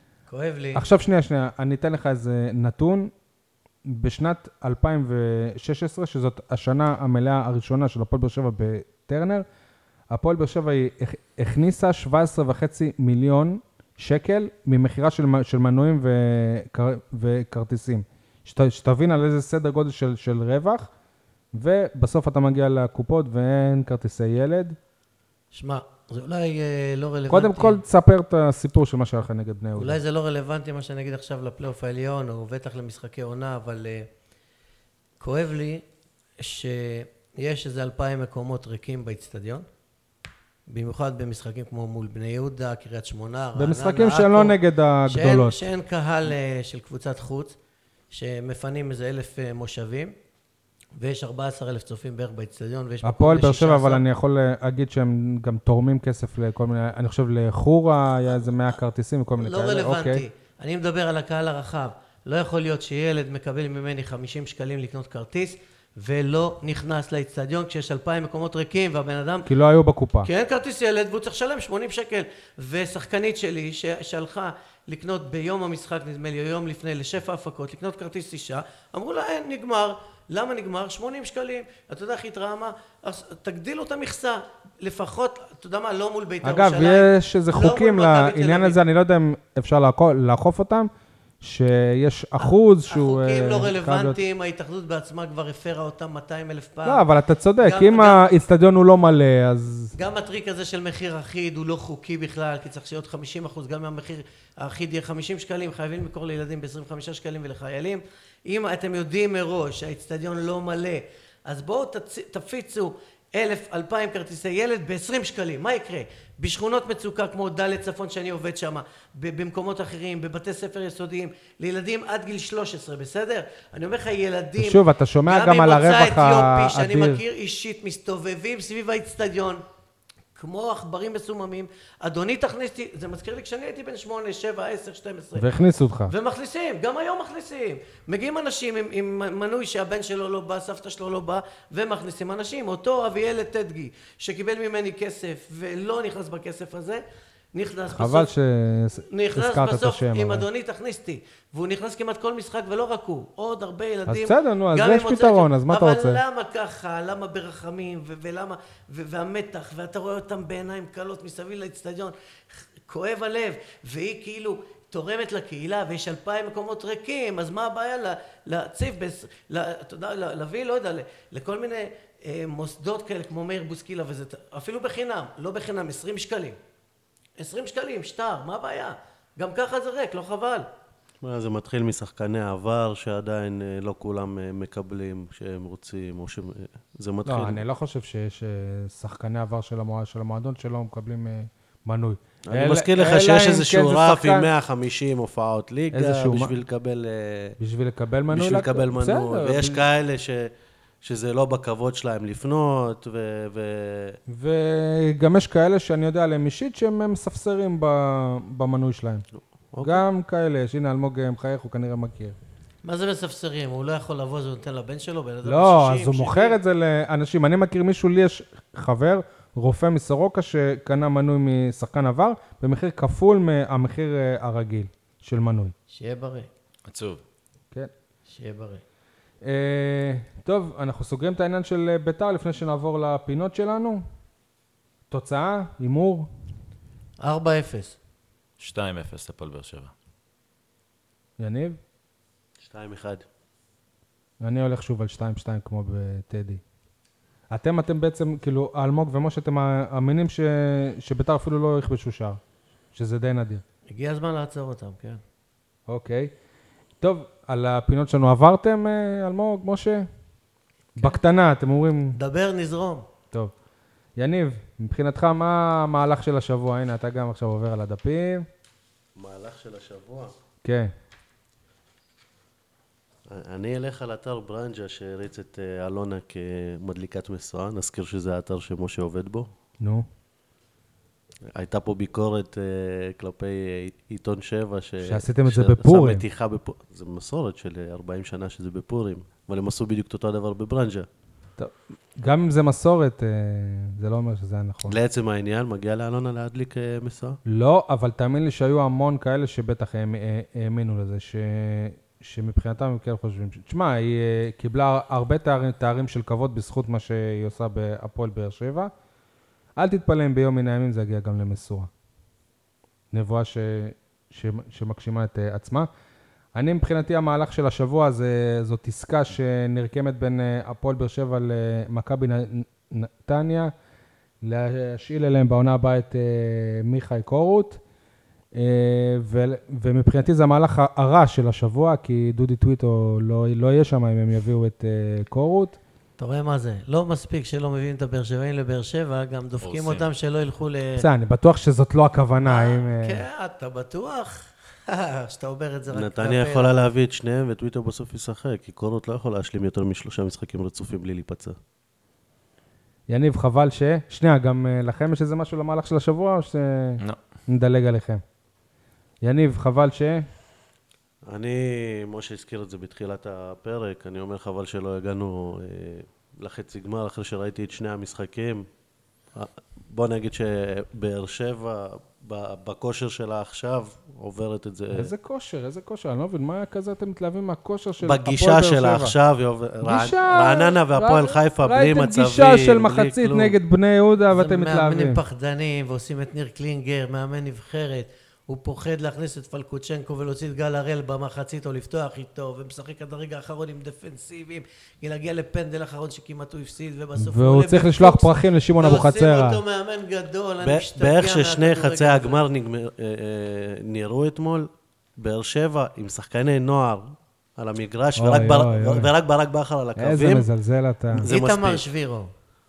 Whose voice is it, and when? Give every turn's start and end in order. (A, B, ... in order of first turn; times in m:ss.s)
0:00.3-0:00.9 A
0:00.7-0:03.1 B
0:03.8-0:09.4 B
0:10.1-0:20.9 B
0:21.5-0:24.8 B
0:25.5-0:27.8 A
0:27.3-0:30.0 B
0:29.8-0:34.1 A
0:35.2-0:35.8 A
0:36.4-0:39.6 A
0:40.7-0:47.6 A
0:43.6-0:45.6 B
0:48.1-0:50.1 A
0:51.0-0:54.0 A
0:53.0-1:00.2 B
0:59.4-1:09.5 A
1:09.4-1:10.3 B
1:10.2-1:28.8 A
1:26.4-1:30.9 B
1:31.4-1:34.2 B
1:32.4-1:37.0 A
1:36.8-1:39.9 B
1:37.6-1:38.2 A
1:39.9-2:09.6 A
2:04.6-2:07.2 B
2:10.3-2:15.5 A
2:15.4-2:16.1 B
2:16.1-2:28.3 A
2:28.0-2:30.5 B
2:29.1-2:56.6 A
2:34.1-2:36.2 B
2:57.4-3:00.7 A
3:01.2-3:07.6 C
3:07.2-3:14.5 B
3:12.5-3:17.6 C
3:15.9-3:16.5 B
3:17.6-3:19.9 B
3:18.3-3:20.5 C
3:21.0-3:24.2 C
3:24.3-3:29.2 B
3:29.4-3:30.0 C
3:29.8-3:32.4 B
3:32.8-3:36.6 A
3:35.4-3:45.7 B
3:45.9-3:46.5 A
3:46.9-3:47.2 D
3:48.2-3:48.8 A
3:49.4-3:54.0 B
3:55.1-3:56.3 B
3:57.2-3:58.0 A
3:58.6-3:59.9 D
4:01.4-4:01.8 B
4:02.6-4:03.2 C
4:04.4-4:06.6 B
4:07.5-4:12.4 B
4:12.9-4:13.6 B
4:13.9-4:15.2 A
4:15.9-4:16.3 B
4:17.0-4:20.1 B
4:21.0-4:22.2 B
4:22.1-4:23.0 A
4:24.2-4:28.4 B
4:29.2-4:30.3 C
4:30.6-4:30.9 B
4:33.3-4:39.5 C
4:39.8-4:40.1 B
4:41.5-4:51.1 C
4:45.0-4:46.2 B
4:51.6-4:55.0 B
4:54.9-4:57.4 C
4:57.4-5:08.9 B
5:09.8-5:11.9 B
5:13.1-5:15.9 B
5:16.6-5:23.7 B
5:24.4-5:27.8 B
5:28.5-5:35.8 B
5:36.2-5:41.0 A
5:39.6-5:40.1 D
5:41.0-5:43.2 B
5:42.4-5:46.8 A
5:45.9-5:51.6 C
5:53.1-5:58.2 B
5:59.2-6:00.2 B
6:01.3-6:08.6 C
6:09.3-6:15.1 C
6:14.9-6:19.1 B
6:18.0-6:23.5 C
6:19.8-6:25.2 B
6:24.3-6:42.4 A
6:37.2-6:39.6 B
6:40.6-6:50.4 C
6:48.2-6:49.1 B
6:50.0-6:51.3 B
6:51.1-6:51.8 C
6:51.3-6:52.3 A